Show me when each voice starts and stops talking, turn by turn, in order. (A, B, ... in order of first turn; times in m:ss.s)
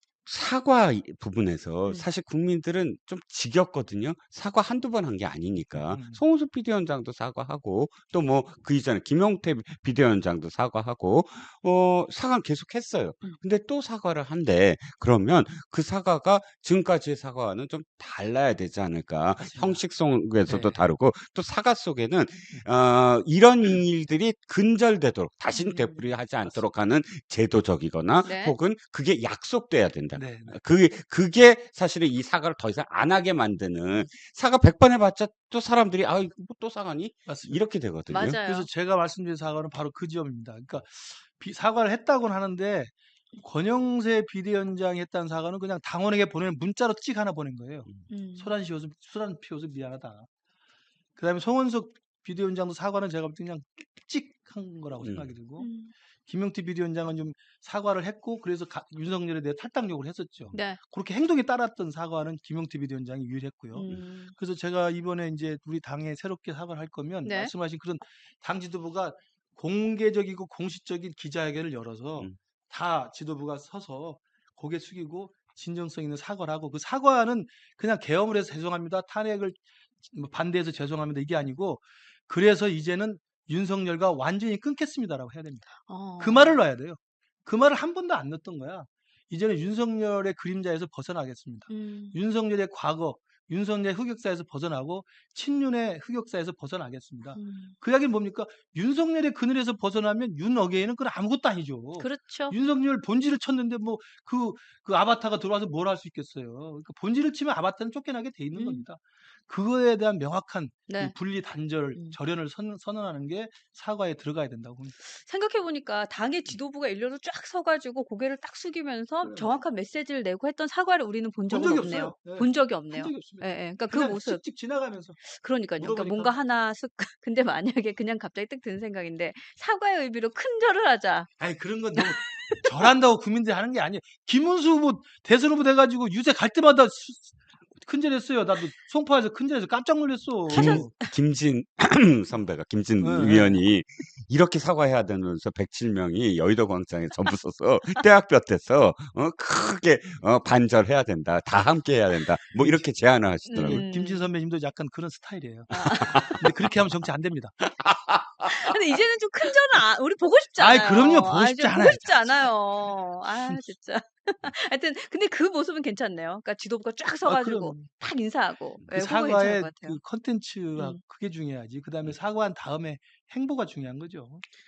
0:00.2-0:38.4 A
0:05.7-0:06.2 B
0:19.4-0:19.8 B
0:20.4-0:20.8 B
0:25.5-0:26.0 C
0:26.4-0:26.7 B
0:28.2-0:28.6 C
0:30.1-0:30.6 B
0:37.3-0:37.6 B
0:38.1-0:38.7 C
0:38.2-0:50.3 B
0:48.1-0:48.5 C
0:51.2-1:54.9 B
0:55.0-0:55.3 A
0:55.6-0:55.9 C
1:00.5-1:00.8 C
1:03.7-1:04.3 C
1:07.2-1:07.5 C
1:25.8-1:26.6 C
1:31.7-1:32.2 C
1:37.3-1:37.8 C
1:42.0-1:42.5 C
1:48.5-1:48.8 C
1:50.9-1:51.1 C
1:55.0-2:04.4 C
2:01.5-2:05.2 B
2:05.2-2:11.3 C
2:05.8-2:06.4 B
2:11.4-2:20.9 B
2:12.0-2:12.7 C
2:20.5-2:21.1 C
2:20.5-2:33.8 A
2:23.0-2:23.6 B
2:32.6-2:32.9 B
2:33.5-2:34.2 C
2:33.6-2:37.6 B
2:35.7-2:36.4 C
2:35.7-2:36.5 A
2:37.8-2:38.7 A
2:38.4-2:50.0 C
2:40.6-2:42.5 B
2:47.2-2:47.9 B
2:48.9-2:54.4 B